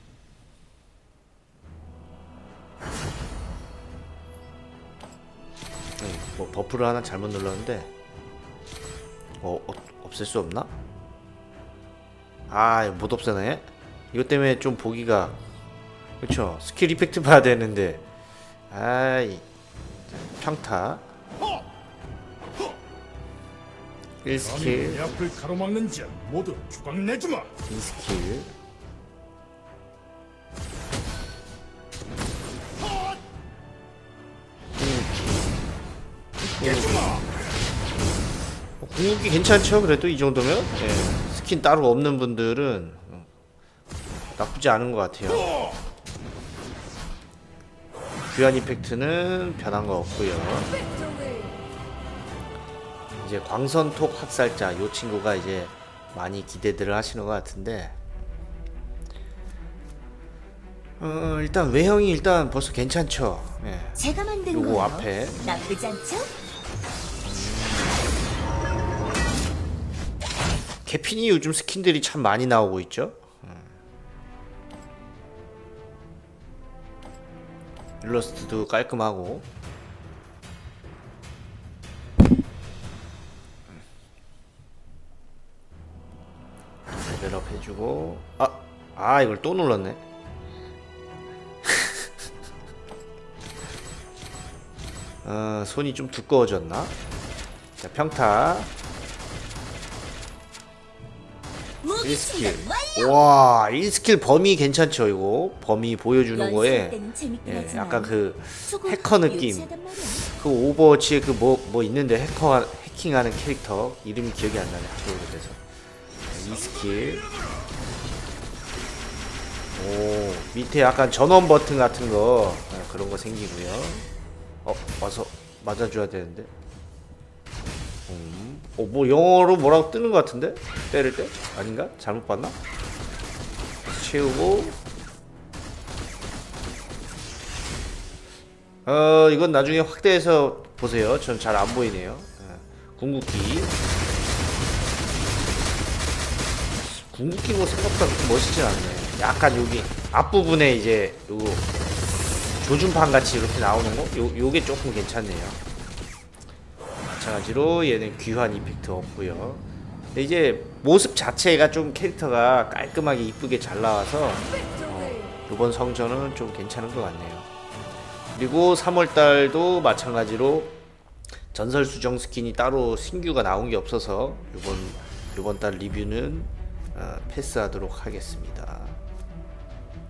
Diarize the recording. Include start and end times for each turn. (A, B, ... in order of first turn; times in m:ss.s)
0:06.0-0:07.9 A
0:09.4-0:10.7 A
0:12.5-0:15.4 A
0:16.2-0:18.0 A
0:18.7-0:19.4 A
0:20.0-0:21.0 A
0:24.2-0:25.0 A
0:24.4-0:27.5 B
0:27.7-0:28.5 A
0:34.7-0:35.5 A
0:36.5-0:37.2 A
0:36.6-0:37.2 B
0:38.8-0:43.3 A
0:44.1-0:45.5 A
0:48.3-0:50.8 A
0:53.2-0:58.0 A
1:01.0-1:05.4 A
1:04.0-1:06.3 C
1:07.2-1:08.0 A
1:10.8-1:13.7 A
1:18.0-1:19.5 A
1:26.9-1:30.0 A
1:31.6-1:32.1 A
1:35.2-1:36.9 A
1:37.8-1:38.7 A
1:41.8-1:43.1 C
1:42.0-1:55.6 A
1:46.3-1:50.2 C
1:56.3-1:57.3 A
1:59.7-2:04.0 A
2:04.6-2:06.5 A
2:08.1-2:12.6 A
2:13.8-2:14.8 A
2:18.8-2:23.8 A
2:26.8-2:31.7 A
2:32.6-2:35.6 A
2:37.0-2:39.6 A
2:40.1-2:47.5 A
2:48.3-2:50.8 A
2:51.5-2:59.0 A